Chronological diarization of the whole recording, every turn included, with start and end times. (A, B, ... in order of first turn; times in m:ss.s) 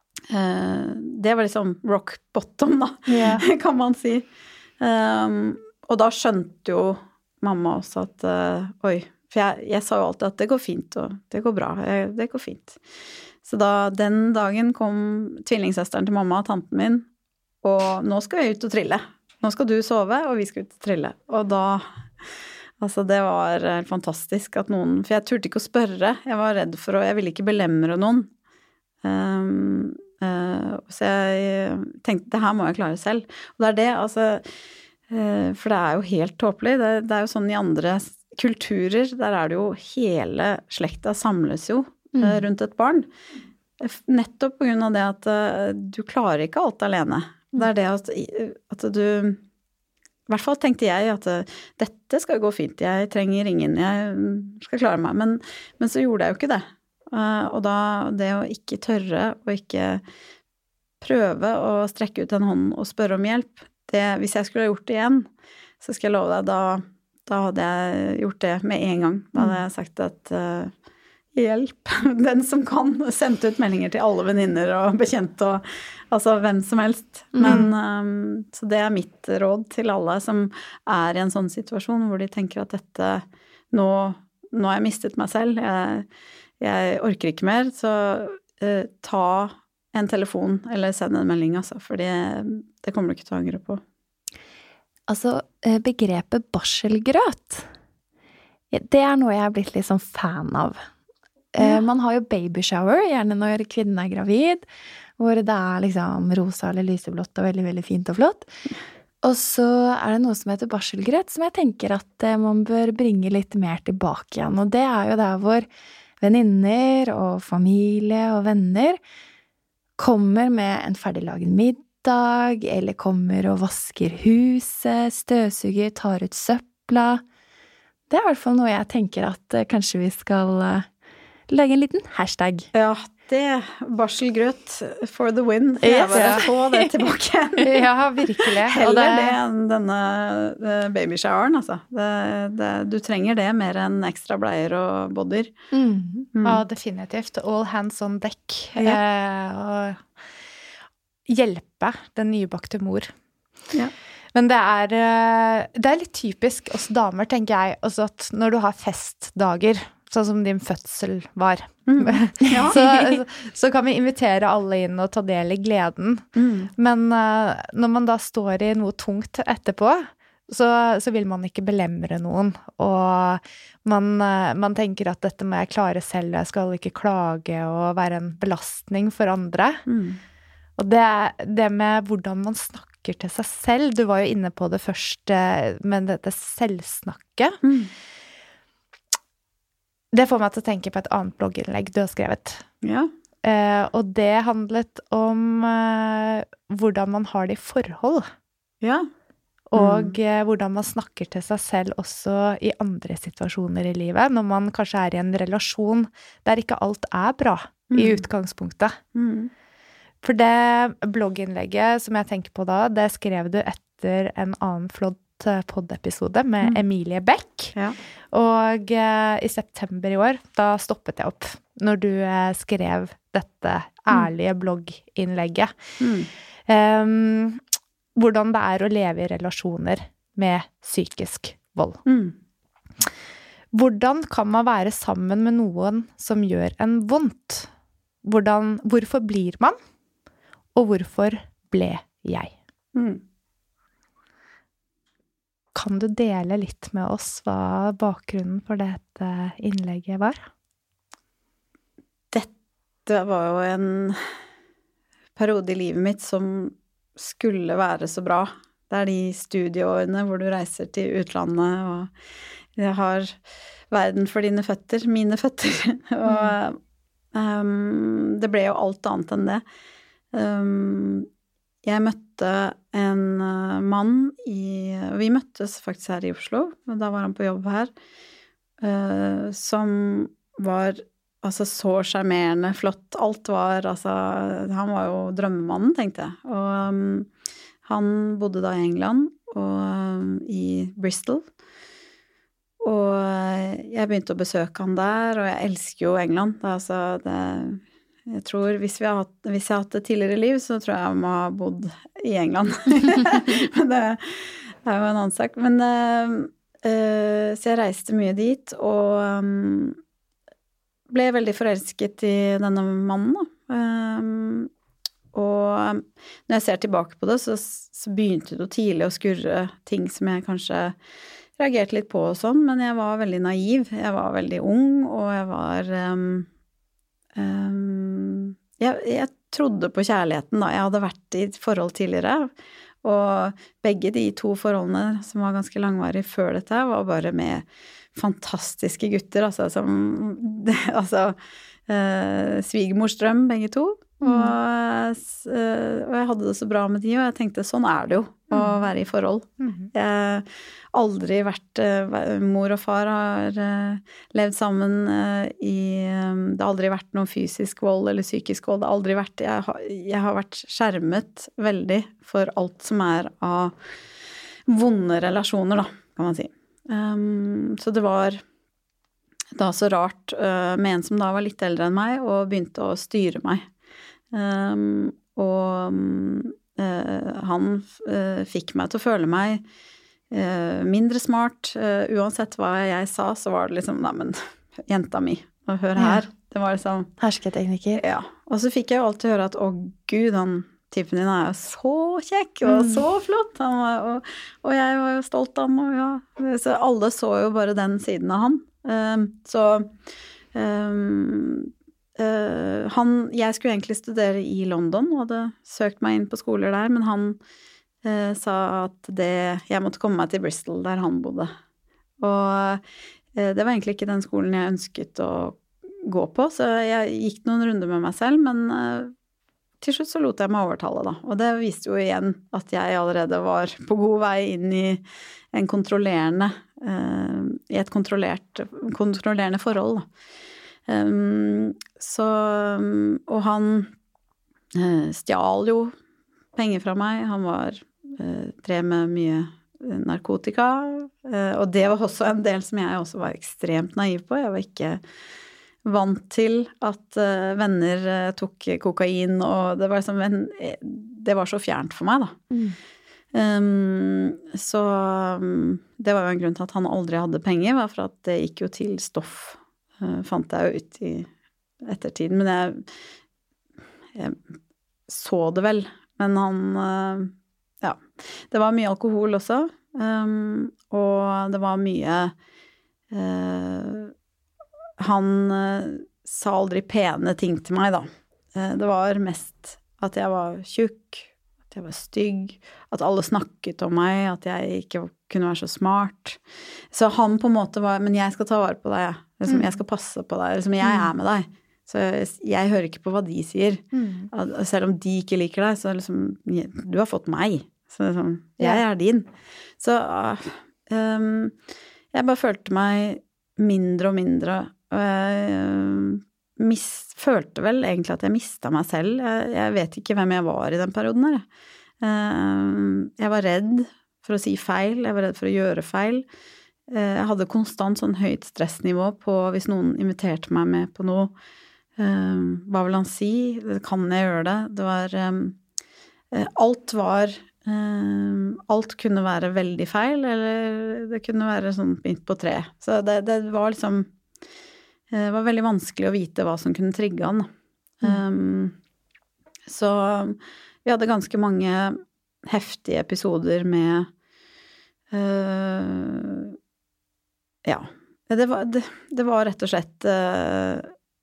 0:00.3-0:04.2 A
0:03.1-0:03.4 B
0:04.8-0:12.8 A
0:13.4-0:17.0 A
0:17.6-0:21.8 A
0:22.8-0:28.3 A
0:29.0-0:34.4 A
0:35.1-0:43.1 A
0:42.1-0:42.4 C
0:43.8-0:49.4 A
0:50.3-1:00.0 A
1:01.0-1:05.3 A
1:05.8-1:10.7 A
1:11.3-1:26.0 A
1:17.3-1:17.7 C
1:17.4-1:17.7 B
1:26.6-1:33.8 A
1:35.1-1:37.7 C
1:38.7-1:40.8 C
1:41.5-1:48.5 C
1:49.2-1:55.7 C
1:56.2-1:59.0 C
2:00.0-2:07.2 C
2:08.1-2:10.9 C
2:11.5-2:12.7 C
2:12.7-2:17.8 A
2:15.8-2:16.9 C
2:15.8-2:16.4 B
2:17.6-2:19.4 B
2:18.4-2:25.5 A
2:25.7-2:26.3 C
2:26.3-2:26.6 A
2:26.4-2:30.1 B
2:31.3-2:33.1 B
2:34.3-2:46.2 B
2:41.9-2:42.8 A
2:46.4-2:46.7 A
2:46.8-2:59.9 B
2:59.9-3:00.2 A
3:00.8-3:07.6 B
3:07.6-3:07.9 A
3:10.1-3:12.6 B
3:12.8-3:13.1 A
3:13.4-3:18.3 B
3:18.8-3:19.1 A
3:19.7-3:29.0 B
3:19.8-3:20.2 A
3:27.9-3:28.2 A
3:29.1-3:29.5 A
3:30.2-3:37.7 B
3:38.3-3:45.7 B
3:46.0-3:46.3 A
3:46.7-3:47.6 B
3:48.1-3:52.0 B
3:52.0-3:52.3 A
3:53.7-3:57.7 B
3:58.2-3:59.8 B
4:00.7-4:02.6 B
4:02.9-4:03.2 A
4:05.7-4:10.4 B
4:13.0-4:14.2 A
4:15.4-4:22.1 A
4:22.8-4:23.3 A
4:23.9-4:26.8 A
4:27.3-4:29.6 A
4:30.3-4:31.3 A
4:31.8-4:37.9 A
4:38.8-4:47.3 A
4:47.8-4:51.4 A
4:52.8-5:10.0 A
5:11.1-5:14.7 A
5:15.3-5:20.9 A
5:21.6-5:26.5 A
5:27.3-5:32.5 A
5:33.0-5:41.4 A
5:41.9-6:03.7 A
5:49.6-5:49.9 B
6:04.7-6:08.4 A
6:09.6-6:13.6 A
6:14.3-6:19.6 A
6:20.3-6:27.1 A
6:26.0-6:26.2 C
6:27.2-6:28.0 C
6:28.0-6:39.9 A
6:32.7-6:33.0 C
6:40.5-6:47.4 A
6:48.0-6:51.5 A
6:52.2-6:52.8 A
6:53.3-6:59.1 A
6:59.8-7:05.0 A
7:05.5-7:10.0 A
7:10.9-7:13.9 A
7:14.7-7:15.9 A
7:16.6-7:25.0 A
7:25.8-7:32.4 A
7:32.5-7:32.8 C
7:33.3-7:41.3 A
7:41.8-7:42.9 A
7:44.1-7:44.4 A
7:45.1-7:52.3 A
7:53.1-7:54.1 A
7:55.0-8:06.4 A
8:06.9-8:19.3 A
8:13.9-8:14.3 B
8:19.8-8:21.5 A
8:22.1-8:31.4 A
8:32.0-8:36.3 A
8:36.9-8:41.3 A
8:42.0-8:45.6 A
8:46.3-8:54.1 A
8:55.1-8:57.5 A
8:58.0-8:58.7 A
8:59.7-9:04.1 A
9:05.1-9:06.6 A
9:07.6-9:10.9 A